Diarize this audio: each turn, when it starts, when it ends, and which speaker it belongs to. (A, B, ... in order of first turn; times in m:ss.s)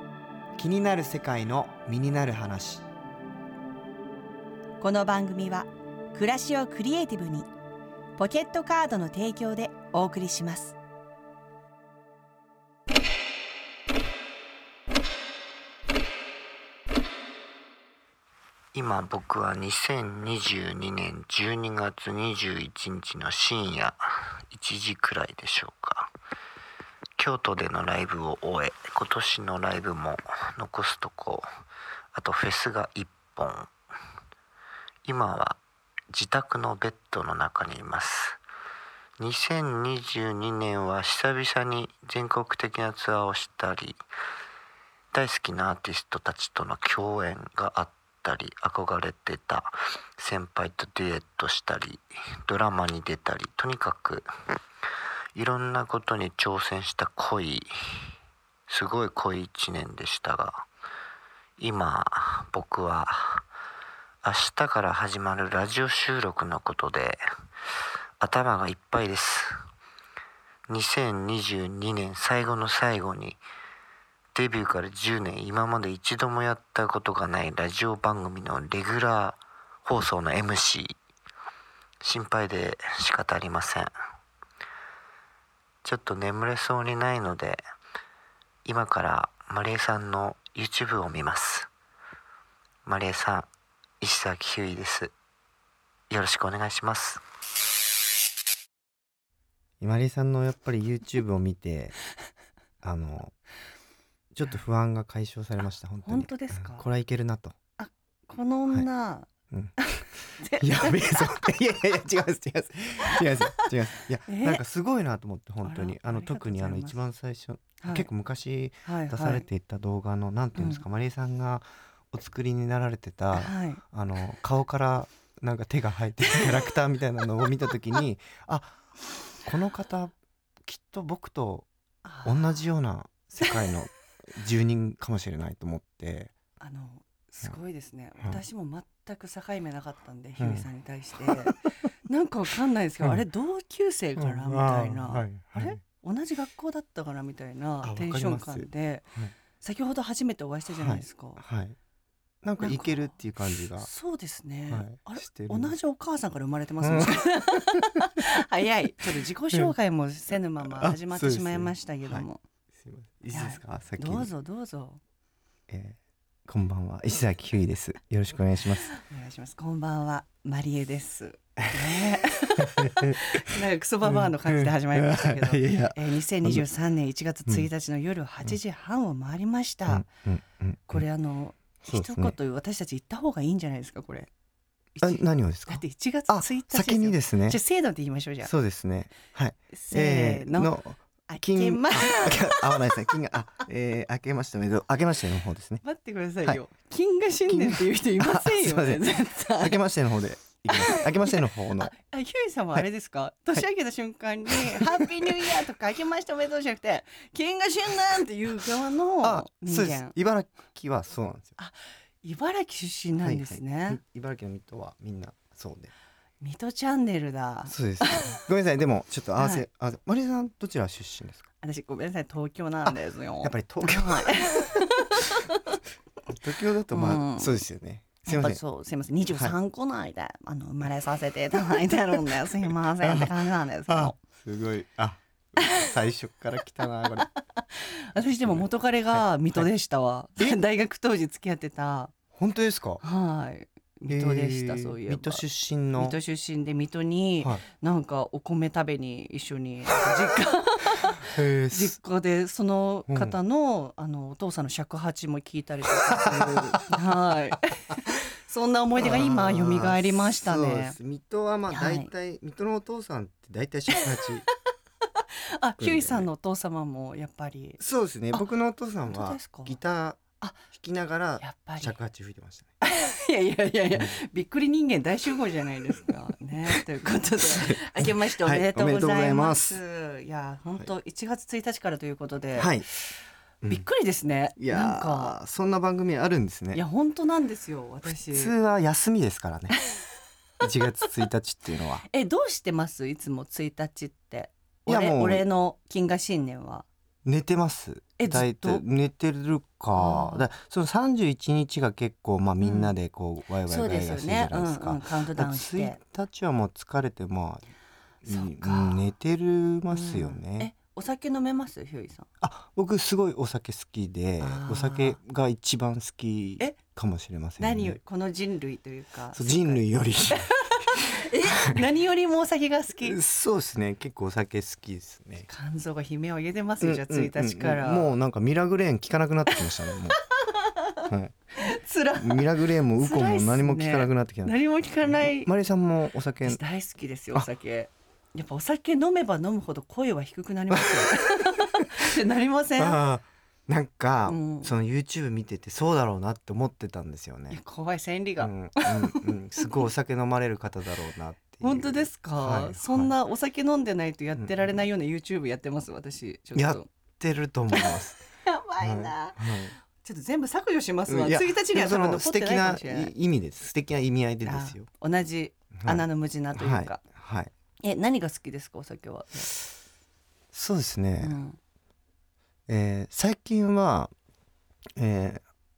0:00.6-0:02.9 A
0:04.8-0:07.5 B
0:08.2-0:10.8 B
0:18.7-0:24.0 C
0:24.5-0:26.1 C
0:27.2-0:31.5 C
0:32.2-0:33.7 C
0:35.0-0:38.4 C
0:39.2-0:44.0 C
0:45.1-0:54.3 C
0:55.4-0:57.7 C
0:58.7-1:00.7 C
1:01.6-1:03.4 C
1:04.2-1:07.2 C
1:08.2-1:09.5 C
1:10.7-1:13.4 C
1:14.4-1:21.0 C
1:22.0-1:23.9 C
1:25.8-1:27.6 C
1:28.6-1:31.7 C
1:32.9-1:33.5 C
1:34.0-1:35.1 C
1:36.1-1:37.2 C
1:39.8-1:42.0 A
1:42.8-1:43.3 A
1:44.3-1:47.6 A
1:46.0-1:46.9 B
1:47.8-1:49.3 B
1:49.5-2:11.7 A
1:49.8-1:51.3 B
1:53.2-1:53.6 B
1:54.3-1:54.6 B
1:55.6-1:57.0 B
1:57.8-1:58.1 B
1:58.8-1:59.5 B
2:00.6-2:00.8 B
2:03.4-2:03.8 B
2:12.0-2:12.6 B
2:12.2-2:16.3 A
2:16.6-2:29.1 B
2:20.4-2:20.7 A
2:24.2-2:25.8 A
2:27.8-2:29.3 A
2:29.6-2:31.4 B
2:30.8-2:31.8 A
2:32.4-2:33.9 A
2:32.6-2:33.1 B
2:33.8-2:42.4 B
2:34.7-2:35.7 A
2:36.8-2:37.2 A
2:40.8-2:42.2 A
2:42.8-2:44.3 A
2:43.3-2:45.0 B
2:45.7-2:48.9 A
2:48.9-3:00.1 B
2:52.6-2:53.2 A
2:54.0-2:56.6 A
2:59.9-3:01.0 A
3:00.9-3:04.3 B
3:01.9-3:02.4 A
3:05.0-3:08.5 B
3:05.0-3:07.6 A
3:08.4-3:15.8 A
3:09.7-3:10.7 B
3:11.3-3:12.9 B
3:15.8-3:19.8 B
3:17.5-3:21.9 A
3:20.7-3:30.2 B
3:24.5-3:25.3 A
3:29.2-3:31.6 A
3:31.6-3:34.0 B
3:33.2-3:35.9 A
3:36.4-3:38.4 B
3:37.7-3:41.5 A
3:39.4-3:39.6 B
3:41.6-3:45.7 B
3:43.4-3:44.9 A
3:46.3-3:48.6 A
3:46.9-3:47.6 B
3:48.2-3:54.2 B
3:53.0-3:57.3 A
3:57.6-4:02.1 B
3:58.2-3:59.7 A
4:02.3-4:03.0 A
4:03.0-4:05.4 B
4:04.1-4:06.2 A
4:06.0-4:21.0 B
4:11.2-4:12.0 A
4:13.1-4:13.4 A
4:16.1-4:16.9 A
4:19.0-4:24.5 A
4:21.7-4:22.1 B
4:25.2-4:27.8 B
4:25.8-4:26.3 A
4:27.8-4:32.8 A
4:29.1-4:29.8 B
4:31.4-4:32.0 B
4:32.8-4:43.1 B
4:37.6-4:39.8 A
4:42.6-4:42.9 A
4:43.7-4:45.4 B
4:44.6-4:46.8 A
4:46.7-4:48.6 B
4:48.1-4:49.8 A
4:50.6-4:52.1 A
4:52.1-4:56.9 B
4:54.9-4:55.5 A
4:57.2-5:07.7 A
4:58.2-4:58.8 B
5:00.0-5:00.5 B
5:02.6-5:02.9 B
5:03.7-5:06.0 B
5:08.2-5:10.7 A
5:08.3-5:09.1 B
5:09.9-5:12.3 B
5:12.4-5:18.0 A
5:14.4-5:15.2 B
5:17.6-5:23.2 B
5:19.3-5:21.8 A
5:23.0-5:25.5 A
5:25.5-5:28.1 B
5:26.8-5:30.2 A
5:30.2-5:31.0 B
5:31.0-5:31.4 A
5:31.6-5:35.5 B
5:32.2-5:36.6 A
5:36.4-5:43.0 B
5:40.8-5:41.1 A
5:42.8-5:47.6 A
5:44.3-5:44.7 B
5:47.5-5:49.6 B
5:48.4-5:53.1 A
5:51.6-5:56.9 B
5:56.6-5:58.2 A
5:57.7-6:03.1 B
5:58.8-5:59.8 A
6:01.1-6:04.9 A
6:04.4-6:07.0 B
6:05.7-6:07.5 A
6:07.8-6:09.5 B
6:10.5-6:11.4 A
6:11.2-6:11.6 B
6:12.7-6:14.1 A
6:15.0-6:15.4 A